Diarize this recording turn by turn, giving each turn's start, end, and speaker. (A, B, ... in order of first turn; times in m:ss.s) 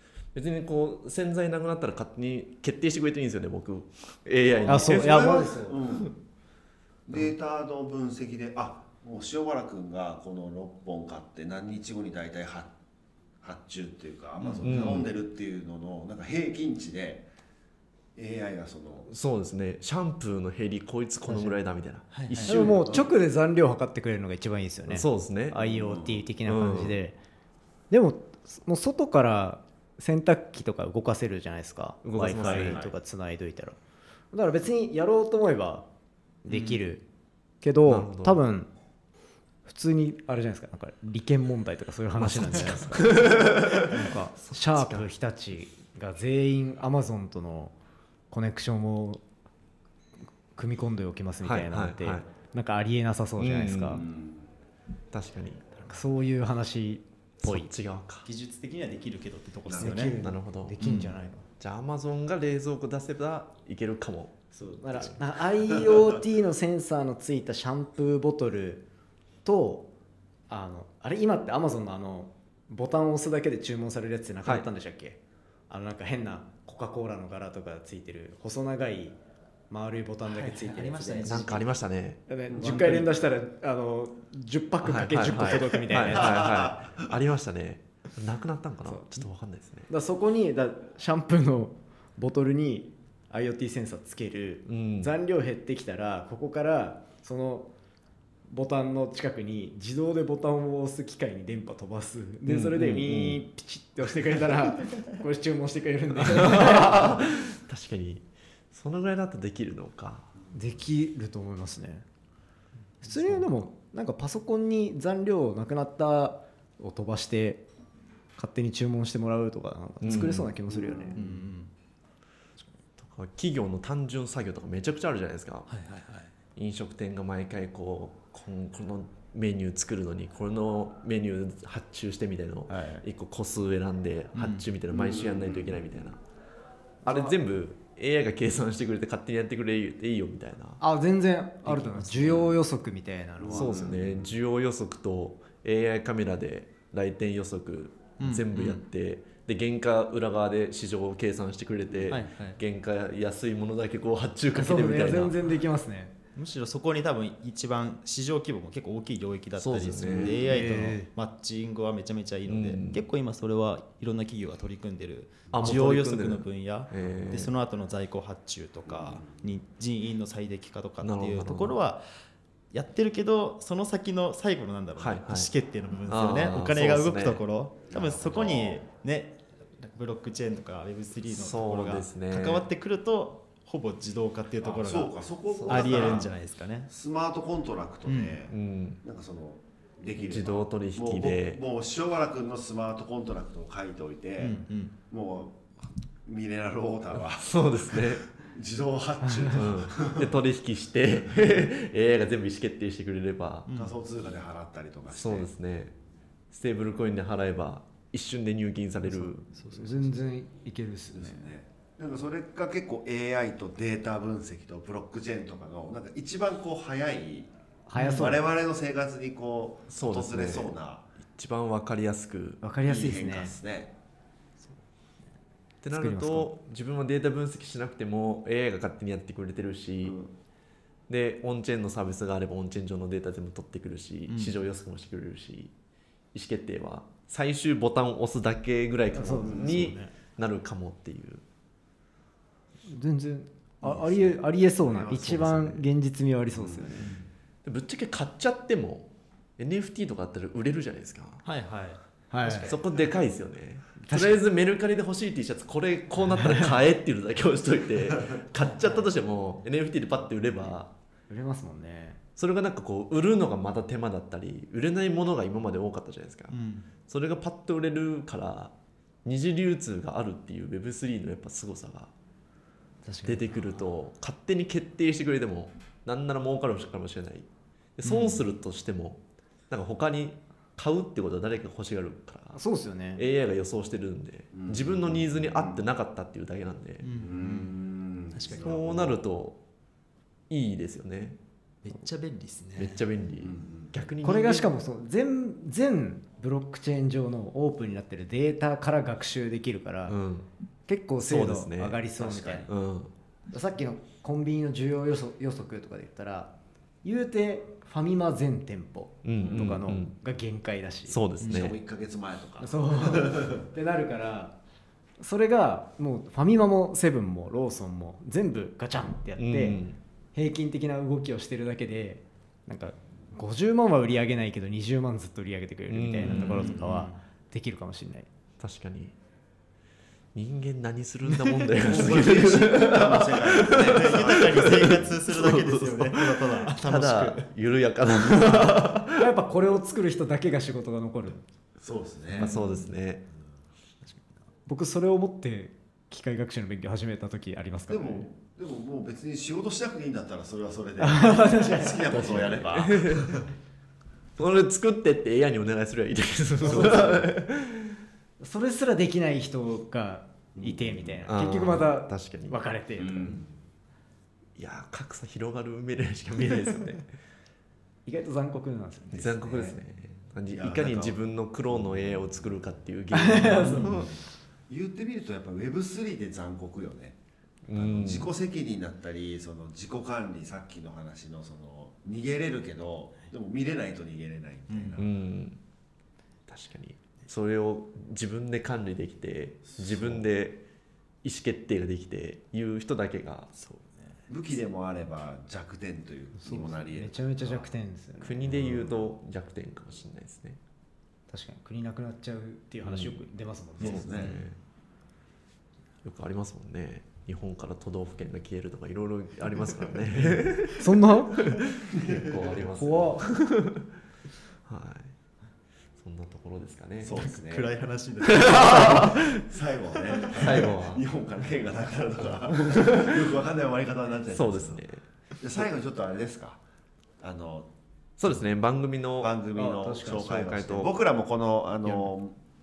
0:00.3-0:05.4 A
0:04.5-0:06.2 B
0:04.6-0:05.8 C
0:07.1-0:12.7 B
0:13.4-0:17.3 B
0:14.4-0:14.7 D
0:14.6-0:15.1 A
0:18.2-0:19.1 B
0:19.1-0:22.8 A
0:21.3-0:21.6 C
0:22.1-0:22.8 D
0:22.4-0:27.2 C
0:24.9-0:25.6 A
0:25.6-0:26.3 B
0:26.4-0:27.0 A
0:27.9-0:33.8 C
0:32.0-0:32.8 A
0:32.4-0:32.9 B
0:34.3-0:35.9 C
0:36.4-0:37.0 C
0:36.5-0:36.8 A
0:37.6-0:38.7 C
0:37.8-0:38.4 A
0:39.6-0:47.7 C
0:42.2-0:45.1 A
0:48.3-0:49.2 C
0:50.6-0:54.0 C
0:51.4-0:52.3 A
0:53.4-0:54.0 A
0:54.0-0:54.5 B
0:55.1-0:55.6 A
0:55.9-0:57.7 C
0:57.4-0:58.2 A
0:58.2-1:00.1 D
0:59.6-1:00.1 B
0:59.7-1:01.5 C
0:59.9-1:00.8 A
1:00.8-1:01.2 D
1:01.6-1:05.2 A
1:04.8-1:08.8 C
1:09.4-1:09.9 C
1:10.5-1:15.2 C
1:15.7-1:19.2 C
1:19.7-1:21.4 C
1:20.2-1:21.8 D
1:21.2-1:23.0 A
1:22.3-1:26.4 C
1:22.5-1:22.9 B
1:22.6-1:23.1 D
1:24.8-1:29.9 A
1:26.1-1:27.1 B
1:28.8-1:29.3 C
1:29.9-1:37.7 C
1:34.6-1:35.1 A
1:38.5-1:47.2 C
1:42.4-1:43.4 A
1:46.2-1:50.3 A
1:50.5-1:52.0 C
1:53.0-1:57.6 C
1:58.4-2:01.3 C
2:00.0-2:00.5 A
2:00.7-2:01.1 B
2:01.2-2:01.7 D
2:03.0-2:05.7 A
2:05.7-2:06.3 D
2:06.6-2:16.2 A
2:12.7-2:13.0 C
2:14.3-2:14.7 D
2:14.9-2:15.9 B
2:17.0-2:17.4 C
2:17.0-2:20.8 A
2:20.8-2:23.8 C
2:21.6-2:22.5 D
2:23.4-2:24.3 B
2:23.5-2:35.4 A
2:28.2-2:28.8 D
2:32.1-2:32.6 D
2:34.5-2:36.1 C
2:36.3-2:52.0 D
2:39.6-2:40.6 A
2:40.0-2:40.5 B
2:40.5-2:41.1 C
2:42.4-2:43.0 A
2:45.5-2:45.8 B
2:45.5-2:47.6 A
2:48.9-2:49.3 B
2:51.0-2:51.7 A
2:52.7-3:06.9 D
2:55.0-2:55.5 A
2:56.0-2:57.4 A
2:57.9-2:58.8 B
3:01.3-3:02.6 A
3:04.6-3:06.3 B
3:05.5-3:06.3 A
3:06.9-3:20.3 B
3:08.0-3:08.4 D
3:08.5-3:09.0 A
3:10.2-3:11.6 A
3:14.4-3:15.0 D
3:17.3-3:18.3 A
3:19.5-3:23.7 A
3:23.7-3:24.0 D
3:23.7-3:25.5 B
3:25.1-3:25.9 A
3:26.5-3:29.4 A
3:29.1-3:31.5 C
3:29.4-3:30.2 D
3:31.1-3:41.0 B
3:37.9-3:38.4 C
3:39.9-3:42.6 A
3:42.6-3:43.6 C
3:42.8-3:43.9 B
3:45.8-3:50.2 A
3:45.9-3:46.5 C
3:51.1-3:55.7 A
3:54.3-3:54.5 D
3:56.3-4:01.4 A
3:59.1-4:00.0 C
3:59.3-4:00.1 D
3:59.4-3:59.9 B
4:02.8-4:07.0 C
4:03.8-4:05.6 B
4:05.3-4:05.8 A
4:06.5-4:07.1 B
4:07.0-4:07.3 D
4:07.6-4:11.4 A
4:11.4-4:12.7 D
4:12.3-4:12.7 C
4:12.5-4:20.9 A
4:14.0-4:14.4 C
4:16.3-4:16.7 C
4:21.3-4:22.2 C
4:22.4-4:26.6 A
4:26.5-4:26.9 D
4:27.1-4:28.7 A
4:29.2-4:32.1 A
4:33.0-4:33.5 C
4:33.2-4:42.6 A
4:38.0-4:38.4 D
4:42.5-4:43.2 C
4:43.2-4:47.1 A
4:44.5-4:45.8 B
4:47.0-4:47.8 D
4:47.2-4:49.2 B
4:48.3-4:48.8 D
4:48.6-4:49.6 A
4:50.5-4:51.4 A
4:51.8-4:53.0 D
4:52.8-4:54.7 A
4:53.4-4:53.9 B
4:54.2-5:00.1 C
5:00.1-5:00.5 A
5:00.9-5:02.7 C
5:01.2-5:02.0 A
5:02.2-5:02.6 B
5:02.6-5:03.1 A
5:03.5-5:06.5 C
5:07.0-5:11.2 C
5:09.2-5:10.1 A
5:09.4-5:09.7 B
5:11.1-5:11.8 A
5:11.4-5:13.6 B
5:12.6-5:14.6 C
5:15.2-5:19.8 C
5:19.4-5:20.0 A
5:20.3-5:28.3 C
5:25.9-5:26.8 A
5:26.2-5:27.2 D
5:28.6-5:29.2 A
5:30.3-5:39.1 A
5:31.8-5:35.1 B
5:33.9-5:37.4 D
5:39.1-5:41.4 C
5:41.8-5:42.6 B
5:42.4-5:43.2 A
5:42.4-5:42.8 D
5:44.0-5:44.4 D
5:44.7-5:48.3 C
5:47.9-5:53.5 B
5:51.0-5:52.6 C
5:52.8-5:53.3 A
5:54.4-5:58.0 A
5:56.6-5:57.2 B
5:56.7-5:57.0 C
5:58.4-6:03.4 C
6:00.6-6:01.2 B
6:01.2-6:02.6 A
6:03.0-6:03.4 B
6:04.6-6:07.1 A
6:08.0-6:09.3 C
6:09.1-6:09.8 B
6:09.1-6:14.1 A
6:10.5-6:11.2 B
6:11.7-6:12.7 B
6:13.1-6:14.0 C
6:13.4-6:17.2 B
6:17.7-6:18.3 A
6:17.7-6:25.1 B
6:24.7-6:25.0 D
6:25.0-6:25.6 A
6:26.5-6:30.6 A
6:29.6-6:30.2 B
6:31.2-6:33.5 A
6:33.5-6:34.2 D
6:34.3-6:37.7 B
6:36.4-6:38.6 C
6:38.2-6:40.6 A
6:41.3-6:44.3 C
6:42.8-6:43.3 A
6:43.8-6:44.4 B
6:43.8-6:44.6 A
6:46.0-6:53.6 A
6:50.8-6:51.4 C
6:51.9-6:52.5 B
6:52.7-6:53.3 C
6:54.7-6:55.1 A
6:56.0-6:57.2 A
6:57.0-6:57.7 B
6:57.1-6:59.3 D
6:58.4-6:59.2 A
6:58.4-7:04.8 B
7:00.1-7:00.6 D
7:00.4-7:01.0 A
7:02.7-7:03.2 A
7:04.3-7:05.0 A
7:05.4-7:06.6 B
7:07.2-7:07.7 B
7:08.2-7:09.3 A
7:09.2-7:12.4 B
7:09.5-7:10.5 C
7:10.3-7:10.9 A